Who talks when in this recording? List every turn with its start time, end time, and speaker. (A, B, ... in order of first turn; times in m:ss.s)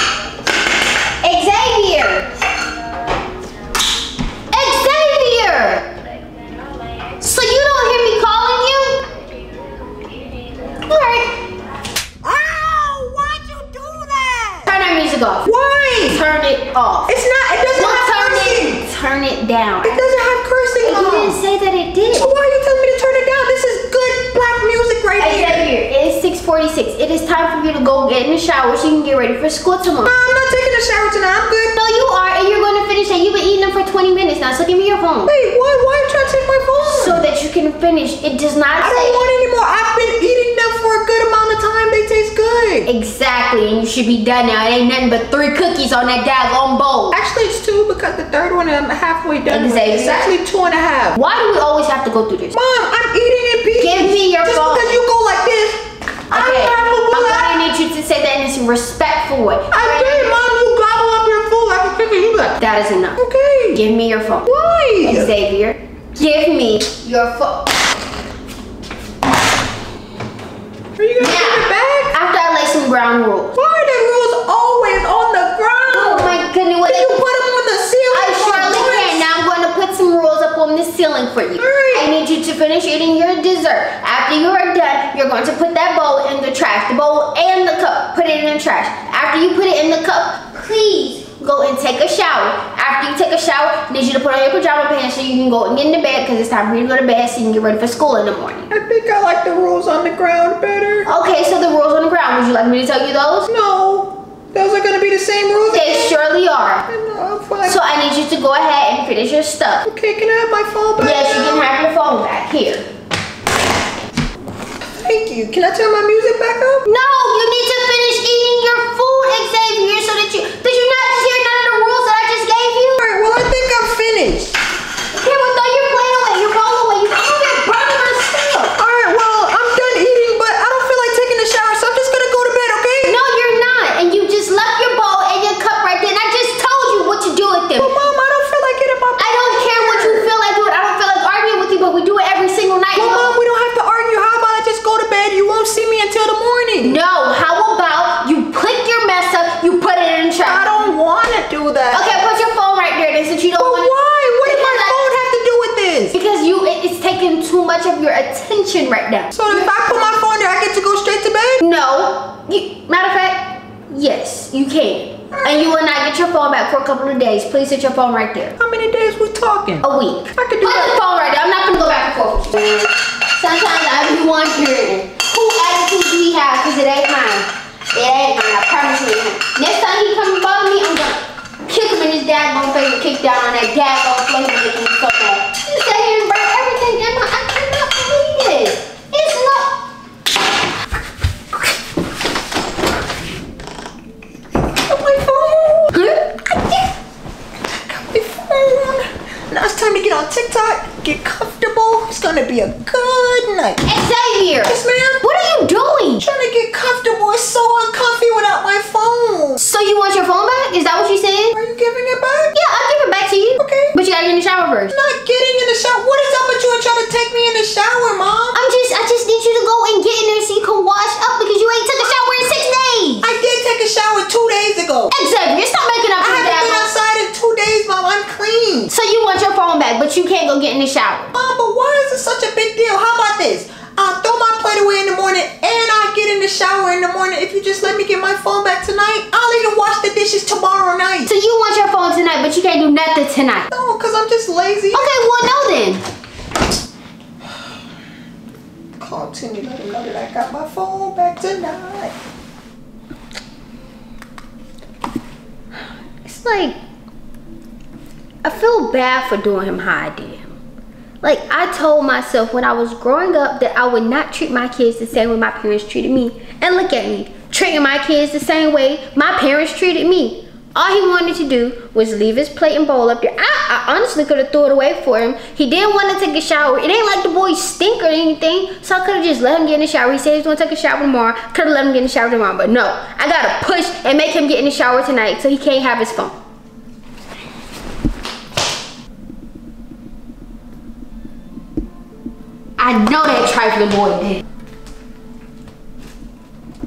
0:01.2-0:02.3 A
0:04.5-0:05.9 A
0:07.2-0:09.0 A
0:10.8-0:11.4 A
0:12.2-0:14.7 B
0:14.7-0:15.5 A
0:15.4-0:16.2 B
0:16.1-0:17.1 A
0:17.1-0:18.8 B
0:17.7-0:20.0 A
0:19.8-0:21.4 B
0:20.8-0:22.3 A
0:22.1-0:25.7 B
0:25.2-0:30.1 A
0:30.1-0:31.8 B
0:31.8-0:35.3 A
0:35.3-0:37.2 B
0:36.8-0:39.2 A
0:38.8-0:42.9 B
0:42.9-0:47.2 A
0:47.1-0:51.2 B
0:49.5-0:50.3 A
0:51.2-0:52.6 A
0:52.5-0:57.6 B
0:53.8-0:55.0 A
0:56.3-1:00.4 A
0:59.7-1:02.6 B
1:02.6-1:03.2 A
1:03.2-1:03.8 B
1:03.7-1:04.5 A
1:04.4-1:05.3 B
1:05.0-1:07.7 A
1:11.0-1:12.2 B
1:11.2-1:13.6 A
1:13.6-1:19.3 B
1:15.9-1:17.2 A
1:18.1-1:38.7 A
1:21.6-1:22.1 B
1:38.7-1:41.1 B
1:41.1-1:43.5 A
1:43.5-1:46.1 B
1:45.7-1:46.8 A
1:46.9-1:47.8 B
1:47.6-1:49.9 A
1:49.8-1:51.7 B
1:51.0-1:52.8 A
1:54.9-1:56.9 B
1:56.8-2:03.0 A
2:03.0-2:04.5 B
2:05.1-2:08.7 A
2:08.8-2:13.2 B
2:13.0-2:17.9 A
2:17.8-2:20.3 B
2:19.2-2:23.4 A
2:23.0-2:27.0 B
2:26.8-2:30.9 A
2:30.5-2:32.1 B
2:31.9-2:35.0 A
2:33.6-2:36.2 B
2:36.1-2:39.7 A
2:39.3-2:41.6 B
2:41.6-2:48.6 A
2:45.3-2:45.7 B
2:48.6-2:51.0 B
2:49.8-3:09.8 A
3:14.9-3:15.9 B
3:15.9-3:16.5 A
3:17.7-3:23.8 B
3:23.8-3:26.2 A
3:24.6-3:25.3 B
3:26.2-3:29.6 B
3:29.6-3:31.6 A
3:31.5-3:32.6 B
3:32.5-3:35.0 A
3:33.6-3:34.0 B
3:34.9-3:38.6 B
3:38.5-3:43.3 A
3:43.2-3:45.1 B
3:45.1-3:46.9 A
3:46.2-3:48.9 B
3:48.9-3:51.3 A
3:51.3-4:01.3 B
4:01.3-4:03.7 A
4:03.7-4:05.1 B
4:04.9-4:06.0 A
4:09.0-4:12.1 B
4:15.8-4:16.8 A
4:18.4-4:20.6 A
4:21.2-4:46.4 A
4:52.8-4:54.4 A